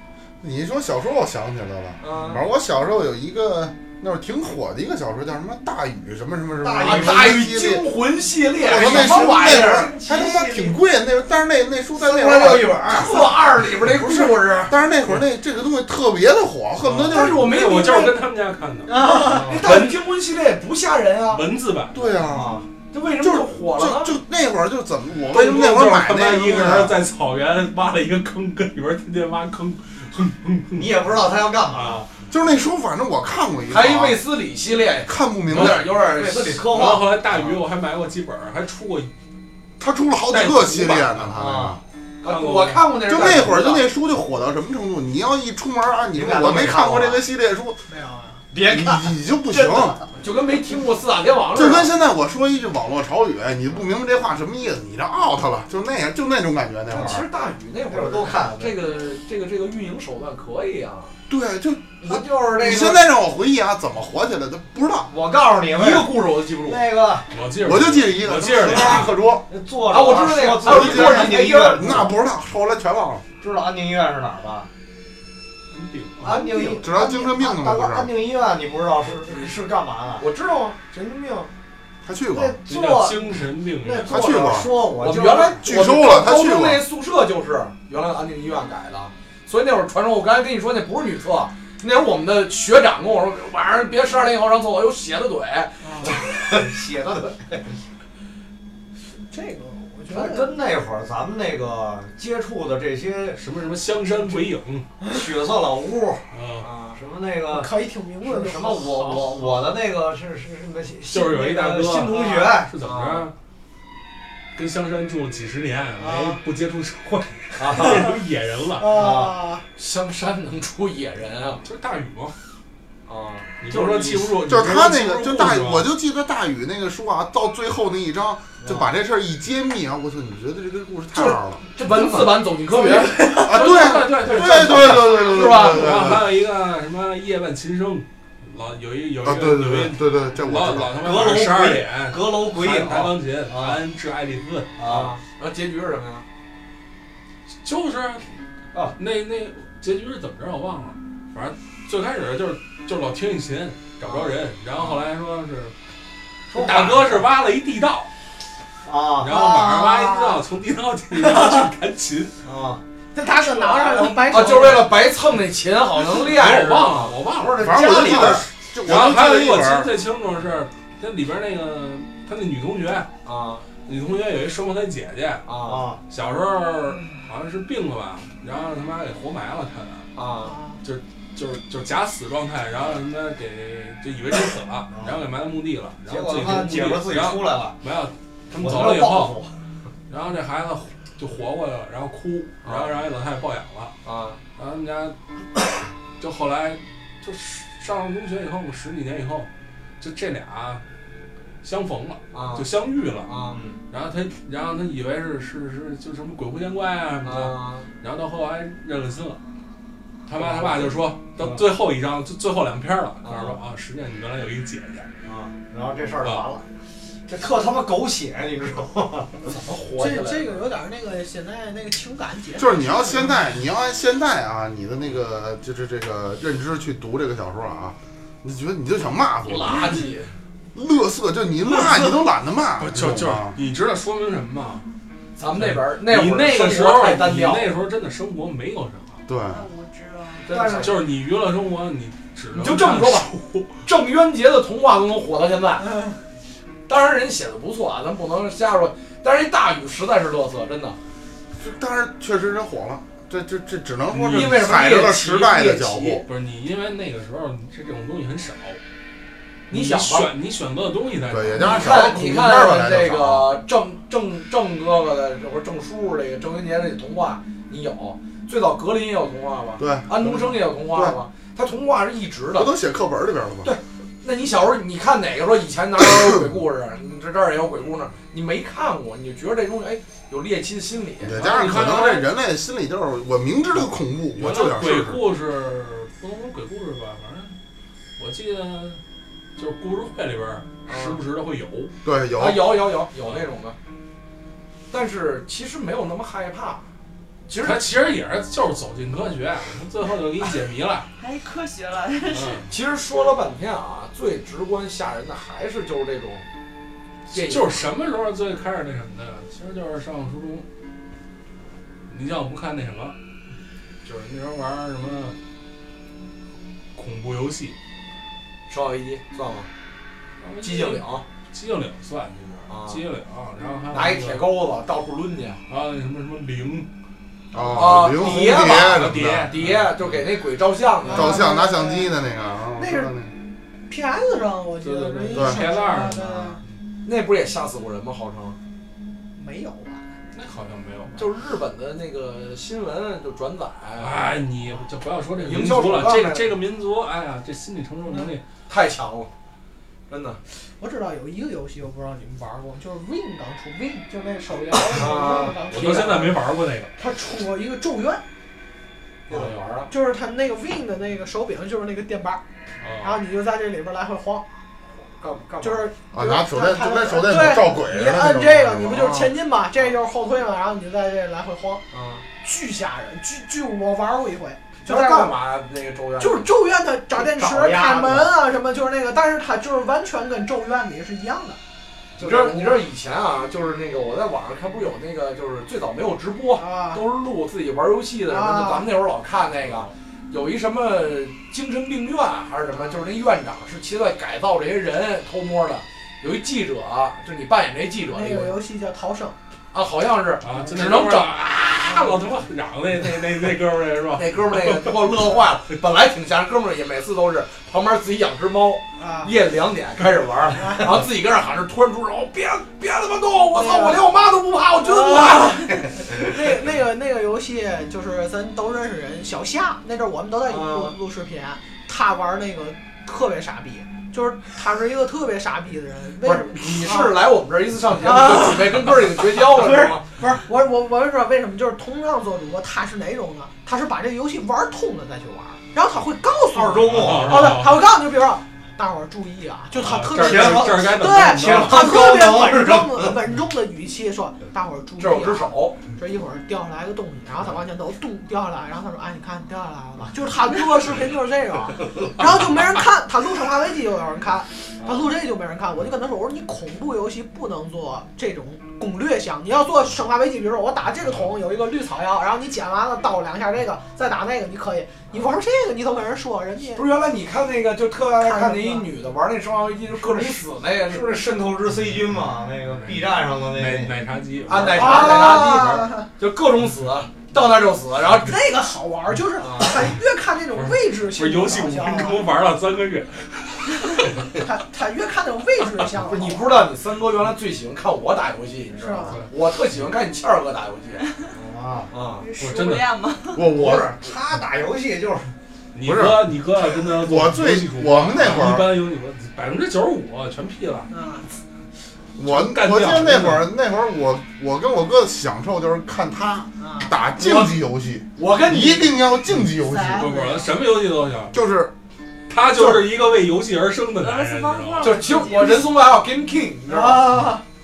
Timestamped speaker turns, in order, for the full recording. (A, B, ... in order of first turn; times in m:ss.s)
0:00.4-0:07.8 A
0:02.0-0:02.4 B
0:06.6-0:07.4 C
0:06.8-0:10.0 B
0:08.6-0:13.2 A
0:08.6-0:10.8 C
0:11.9-0:13.3 C
0:12.8-0:14.8 B
0:14.7-0:17.5 A
0:16.8-0:20.0 D
0:17.0-0:18.2 B
0:18.8-0:19.5 E
0:19.2-0:21.5 B
0:19.2-0:19.6 C
0:21.3-0:22.2 D
0:21.9-0:22.6 A
0:22.3-0:22.7 C
0:22.9-0:24.2 B
0:23.2-0:27.0 A
0:25.3-0:31.1 D
0:30.7-0:32.1 C
0:31.7-0:32.0 D
0:32.3-0:34.2 A
0:33.7-0:36.9 B
0:35.0-0:35.8 A
0:35.5-0:35.8 D
0:35.9-0:37.6 C
0:36.6-0:39.1 D
0:39.8-0:41.8 A
0:40.3-0:41.2 D
0:41.3-0:41.8 C
0:42.2-0:43.9 B
0:42.2-0:42.9 D
0:43.0-0:47.8 A
0:46.1-0:47.2 C
0:47.9-0:48.4 E
0:48.5-0:49.9 C
0:48.6-0:50.0 A
0:50.1-0:51.9 B
0:51.5-0:57.2 A
0:56.9-0:57.2 C
0:56.9-1:01.1 B
0:57.9-0:58.8 C
1:01.3-1:05.1 A
1:02.0-1:03.0 C
1:05.1-1:07.3 C
1:05.7-1:06.9 B
1:07.3-1:09.1 D
1:07.6-1:09.4 A
1:09.5-1:12.1 C
1:09.9-1:12.1 B
1:10.6-1:13.2 A
1:13.4-1:14.7 C
1:15.7-1:16.4 D
1:16.2-1:20.2 C
1:16.6-1:18.1 A
1:19.1-1:19.6 B
1:20.2-1:21.5 B
1:22.0-1:22.6 A
1:22.3-1:25.7 C
1:22.7-1:24.5 D
1:24.1-1:24.7 A
1:24.9-1:36.2 B
1:25.6-1:26.8 A
1:35.8-1:36.1 E
1:36.0-1:37.8 C
1:39.1-1:40.6 E
1:40.1-1:43.4 C
1:43.3-1:44.9 D
1:45.1-1:46.2 C
1:46.3-1:46.7 D
1:46.6-1:47.0 B
1:46.9-1:52.7 C
1:47.5-1:49.5 E
1:51.1-1:53.3 D
1:52.1-1:53.3 B
1:54.5-1:59.1 D
1:56.0-1:56.4 E
1:57.6-1:58.1 C
1:58.8-1:59.6 E
1:58.8-1:59.4 C
1:59.7-2:01.6 B
2:01.6-2:02.3 D
2:03.0-2:04.3 B
2:03.6-2:05.9 D
2:04.4-2:11.6 A
2:11.1-2:16.1 B
2:13.4-2:16.3 A
2:13.4-2:24.8 D
2:19.2-2:21.1 A
2:20.9-2:23.8 C
2:24.8-2:25.1 C
2:24.8-2:26.2 B
2:27.6-2:28.3 D
2:28.9-2:35.7 D
2:34.0-2:34.8 B
2:36.5-2:37.3 C
2:36.5-2:38.1 D
2:38.8-2:39.7 C
2:39.2-2:42.4 D
2:39.3-2:40.4 E
2:41.1-2:41.6 E
2:42.4-2:42.8 C
2:43.1-2:44.9 E
2:43.8-2:48.3 B
2:46.2-2:53.1 D
2:47.6-2:49.9 A
2:47.7-2:48.3 C
2:53.2-2:53.7 B
2:53.8-2:55.4 D
2:55.4-2:55.9 B
2:55.6-2:56.0 C
2:56.1-3:00.1 D
3:00.1-3:00.6 B
3:00.4-3:00.8 E
3:00.8-3:09.4 D
3:04.9-3:05.2 C
3:06.0-3:07.8 C
3:08.5-3:09.5 C
3:10.1-3:14.0 D
3:12.6-3:13.0 B
3:14.0-3:14.4 B
3:14.6-3:15.2 D
3:16.2-3:20.8 D
3:21.6-3:23.3 D
3:22.3-3:22.7 B
3:23.2-3:23.8 B
3:23.9-3:29.4 D
3:27.2-3:27.9 B
3:30.2-3:35.1 D
3:30.4-3:31.6 C
3:33.2-3:33.6 B
3:35.2-3:36.6 C
3:37.3-3:39.5 C
3:39.4-3:40.6 B
3:40.0-3:43.4 E
3:42.6-3:50.1 A
3:49.4-3:50.3 B
3:50.7-3:53.6 A
3:52.8-3:54.8 D
3:55.4-3:57.8 B
3:55.5-3:59.2 D
3:59.3-3:59.6 A
3:59.4-4:00.6 F
4:00.4-4:01.0 B
4:00.5-4:01.0 C
4:00.6-4:03.8 D
4:02.5-4:03.3 B
4:03.8-4:06.0 B
4:05.8-4:06.2 E
4:06.9-4:11.0 B
4:11.6-4:16.2 A
4:14.1-4:16.2 B
4:16.2-4:18.8 D
4:19.7-4:20.3 B
4:19.7-4:22.2 D
4:21.3-4:23.5 A
4:21.6-4:32.7 B
4:29.8-4:31.1 A
4:32.6-4:33.7 A
4:33.6-4:41.5 B
4:41.2-4:45.2 A
4:41.3-4:42.3 D
4:44.4-4:47.5 D
4:48.2-4:49.0 D
4:49.6-4:51.9 D
4:50.9-4:51.2 B
4:52.0-4:52.8 A
4:52.4-4:53.8 B
4:53.2-4:53.5 D
4:54.9-4:56.8 B
4:57.5-4:57.9 B
4:57.6-5:01.1 D
5:01.2-5:02.6 F
5:02.3-5:02.6 D
5:02.7-5:06.4 B
5:07.3-5:10.6 D
5:07.3-5:07.9 B
5:12.1-5:13.2 D
5:14.0-5:15.3 D
5:16.9-5:17.8 D
5:18.7-5:19.7 B
5:20.4-5:24.5 D
5:20.6-5:21.2 B
5:22.7-5:23.0 B
5:23.9-5:25.6 B
5:25.7-5:26.9 D
5:27.5-5:29.5 A
5:27.5-5:31.4 B
5:28.2-5:30.3 D
5:31.0-5:32.2 E
5:31.1-5:33.3 A
5:32.8-5:33.1 E
5:33.9-5:36.6 E
5:34.8-5:36.8 D
5:35.3-5:35.7 A
5:37.0-5:38.6 B
5:39.4-5:40.1 E
5:40.3-5:41.3 D
5:41.2-5:44.2 B
5:44.0-5:48.5 D
5:45.3-5:46.6 B
5:48.6-5:49.3 B
5:50.1-5:50.4 B
5:50.8-5:56.4 E
5:54.9-5:56.2 B
5:55.7-5:56.9 D
5:57.0-5:58.2 E
5:59.3-5:59.9 B
5:59.3-5:59.6 D
5:59.9-6:02.4 E
6:02.8-6:03.2 D
6:03.0-6:04.4 E
6:05.0-6:05.9 B
6:05.6-6:11.8 E
6:06.1-6:09.3 A
6:11.9-6:12.2 B
6:12.4-6:15.3 E
6:14.8-6:16.5 B
6:16.2-6:21.6 E
6:17.1-6:18.3 B
6:22.2-6:38.6 B
6:22.2-6:22.7 C
6:26.5-6:27.0 E
6:28.3-6:28.9 E
6:38.1-6:39.4 E
6:39.7-6:41.6 B
6:40.4-6:45.1 D
6:44.1-6:56.3 B
6:49.0-6:49.3 E
6:50.6-6:51.0 E
6:53.5-6:54.0 E
6:54.8-7:07.2 E
7:00.5-7:00.9 B
7:06.2-7:10.1 B
7:08.0-7:46.8 E
7:16.5-7:17.6 C
7:16.9-7:17.9 D
7:19.7-7:22.0 D
7:20.1-7:23.2 C
7:25.0-7:25.8 B
7:34.8-7:35.1 B
7:46.7-7:51.4 B
7:48.2-7:48.9 E
7:50.9-7:53.9 C
7:52.7-7:55.6 D
7:54.4-7:58.4 B
7:54.5-7:55.1 C
7:54.7-7:56.0 E
7:58.2-8:02.2 E
7:59.4-7:59.9 B
8:00.5-8:04.3 D
8:04.4-8:06.5 E
8:06.0-8:11.0 B
8:08.7-8:09.2 E
8:11.3-8:11.9 C
8:11.9-8:12.2 B
8:12.2-8:13.5 F
8:12.4-8:12.8 D
8:13.3-8:13.9 A
8:13.5-8:15.3 C
8:15.7-8:20.9 D
8:15.8-8:18.8 A
8:20.9-8:21.3 E
8:22.2-8:30.1 A
8:22.2-8:23.4 D
8:26.6-8:26.9 E
8:27.2-8:27.6 B
8:28.2-8:28.9 B
8:29.6-8:30.5 E
8:29.9-8:31.4 D
8:31.3-8:31.7 A
8:32.3-8:35.0 D
8:32.5-8:32.9 A
8:34.0-8:35.7 F
8:34.8-8:37.1 B
8:35.0-8:35.7 E
8:36.7-8:37.4 E